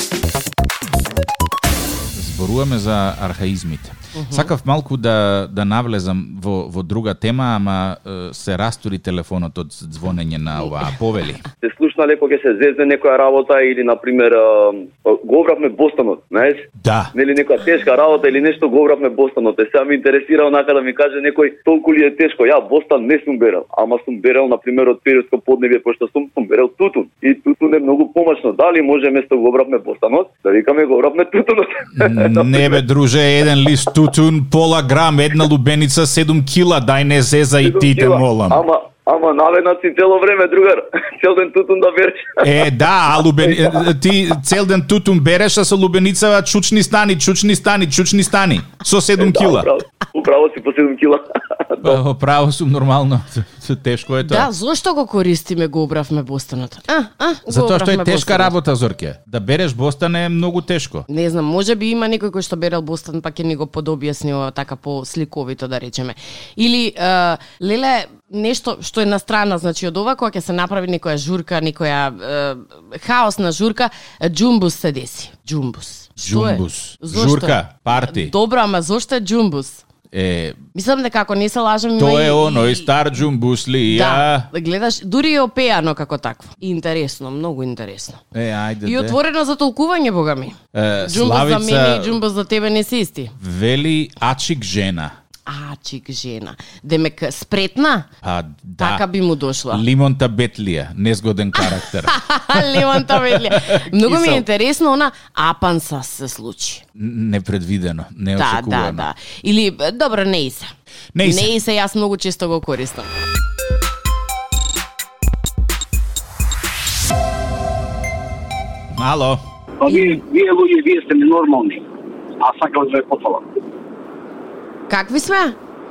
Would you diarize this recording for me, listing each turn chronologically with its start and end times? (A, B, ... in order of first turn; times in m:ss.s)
0:02.1-0:11.4 A
0:04.2-0:04.5 B
0:11.6-0:32.8 C
0:16.8-0:17.1 A
0:31.9-0:38.6 A
0:37.6-0:42.5 C
0:42.4-0:49.7 A
0:49.2-0:52.0 C
0:51.8-0:54.5 A
0:54.2-0:58.5 B
0:57.5-1:01.0 A
1:01.1-1:19.8 B
1:16.2-1:18.3 A
1:20.1-1:20.6 A
1:20.7-1:22.9 B
1:22.0-1:24.5 A
1:23.9-1:28.2 B
1:28.3-1:29.2 A
1:28.8-1:33.3 B
1:30.7-1:32.2 A
1:33.4-1:35.1 A
1:35.5-1:38.1 B
1:38.2-1:39.0 A
1:38.8-1:39.8 B
1:39.7-1:44.4 A
1:41.6-1:46.8 B
1:47.0-1:49.1 A
1:48.3-1:50.7 B
1:51.1-1:51.5 A
1:51.2-1:53.1 B
1:58.9-1:59.4 A
1:59.8-2:01.8 D
1:59.9-2:00.2 B
2:02.4-2:03.4 D
2:04.9-2:05.6 B